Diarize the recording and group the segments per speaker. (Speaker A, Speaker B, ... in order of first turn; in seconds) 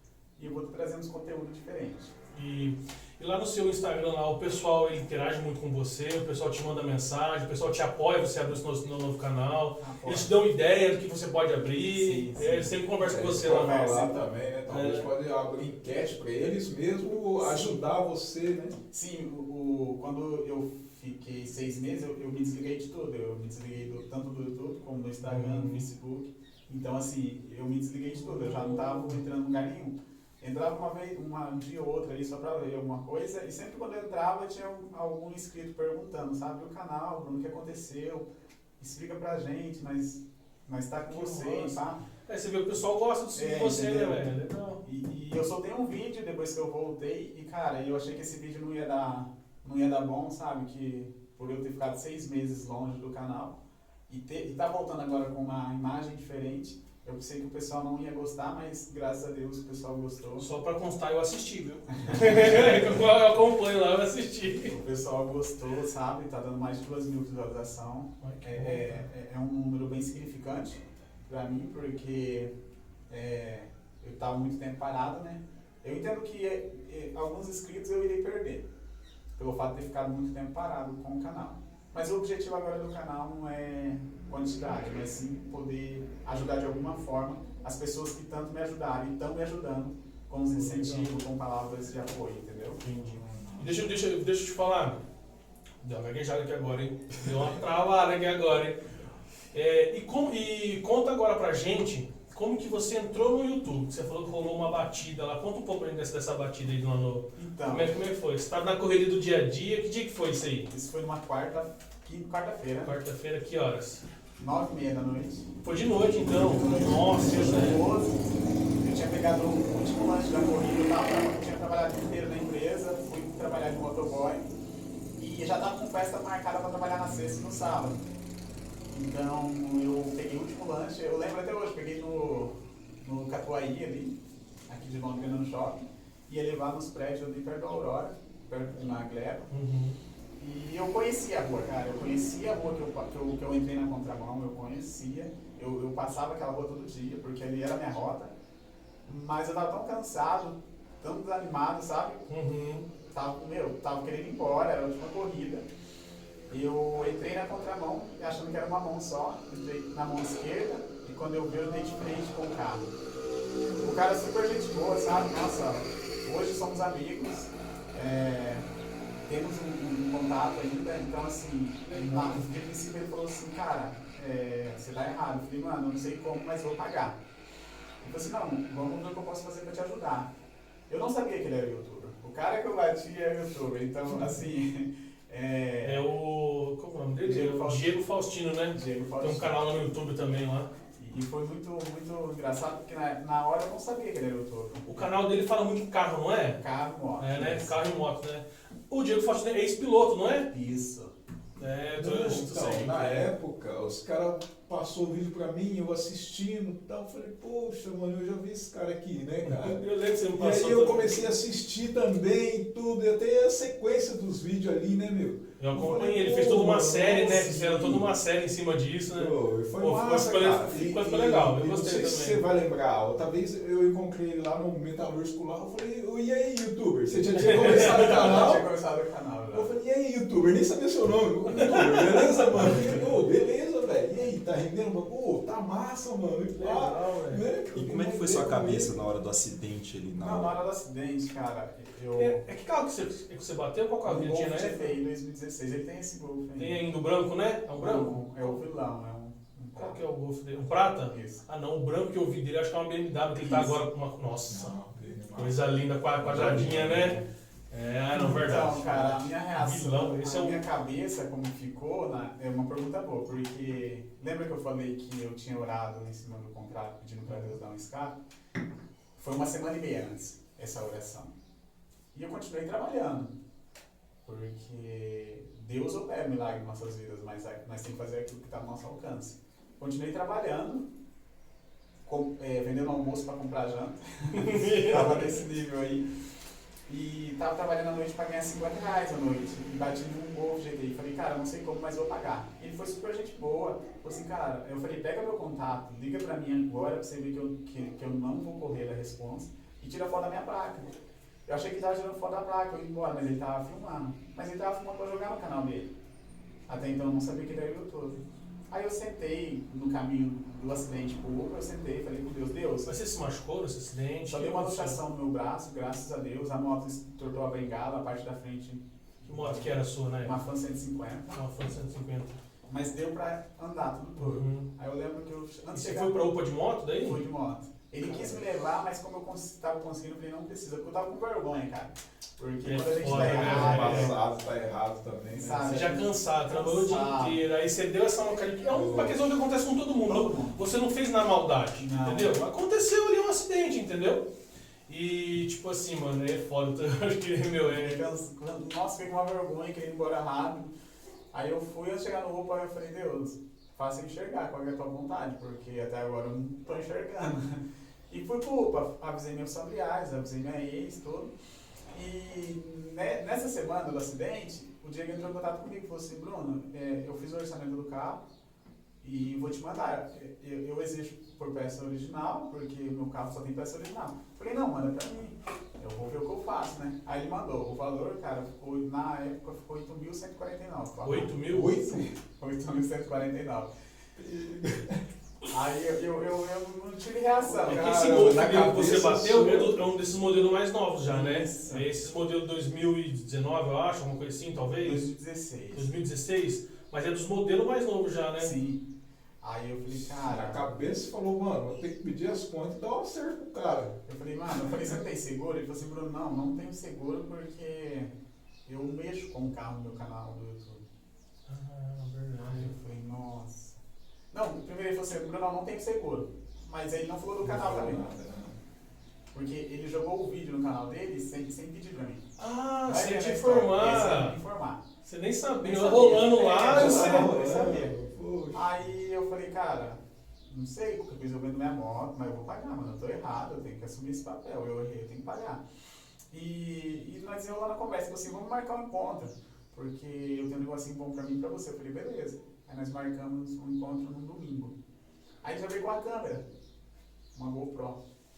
Speaker A: 0.4-2.1, 9.8-10.3, 11.9-12.8, 13.4-14.3, 18.9-38.3, 38.8-42.0, 43.3-44.3, 44.8-53.6, 54.1-60.5, 61.9-63.1, 64.7-72.5, 73.1-78.7, 79.4-92.8, 107.3-108.0, 110.7-113.0, 114.4-115.5, 116.3-118.2, 118.8-124.5, 125.2-128.0, 128.9-139.5, 140.4-148.3, 149.1-152.3, 153.1-155.7, 156.5-162.9, 163.8-168.7, 169.3-177.2, 178.0-180.3, 180.9-186.1, 187.2-187.9, 188.7-189.9, 190.9-195.1, 196.6-197.8, 200.5-201.1, 227.5-229.7, 240.2-242.4, 244.1-246.8, 247.8-250.0, 251.1-251.4, 253.3-253.8, 258.1-268.2, 269.2-271.3, 272.1-273.3, 274.2-280.9, 282.1-286.1, 286.9-300.9, 301.5-305.9, 306.7-308.2, 308.7-312.9, 314.3-321.4, 322.7-326.2, 327.0-334.1, 335.3-337.4, 340.1-340.6, 341.8-342.4, 347.6-350.7, 351.3-361.3, 361.9-368.2, 369.0-383.7, 385.5-388.1, 391.1-391.9, 394.8-395.9, 398.4-398.8, 399.4-400.6, 404.1-408.1, 408.7-410.9, 412.4-413.8, 414.3-418.1, 419.3-422.2, 422.9-424.8, 425.6-427.9, 428.5-435.6, 436.3-444.7, 445.4-446.4, 447.3-448.0
Speaker B: 2.3-13.9, 14.7-15.1, 25.2-25.9, 28.1-29.2, 41.1-44.8, 60.4-64.8, 68.2-69.0, 90.5-91.2, 92.8-95.0, 95.8-98.9, 99.5-110.7, 112.8-114.0, 115.6-117.8, 139.5-140.0, 152.3-152.9, 171.9-172.6, 185.8-190.7, 194.9-196.6, 197.2-200.5, 201.6-203.3, 209.4-211.3, 215.6-222.4, 227.4-228.6, 231.5-233.0, 236.6-237.4, 242.2-245.0, 246.6-248.6, 249.8-254.7, 255.3-257.2, 257.7-260.6, 267.3-267.5, 284.3-285.4, 312.9-315.0, 319.3-320.4, 321.3-322.4, 324.2-324.7, 325.7-327.2, 332.6-334.2, 335.6-344.3, 344.9-348.0, 381.1-381.9, 387.6-395.0, 395.7-398.6, 411.5-412.7, 422.4-424.4, 425.0-427.3
Speaker C: 13.0-18.8, 93.0-93.8, 202.0-209.8, 210.3-218.1, 219.1-228.6, 229.5-239.0, 254.5-255.6, 256.2-257.2, 328.1-328.4, 333.0-335.7, 338.7-339.2, 381.5-382.1, 384.2-385.0, 387.5-389.8, 400.1-404.0, 417.4-418.6, 426.7-428.8
Speaker D: 237.7-240.5, 333.7-334.0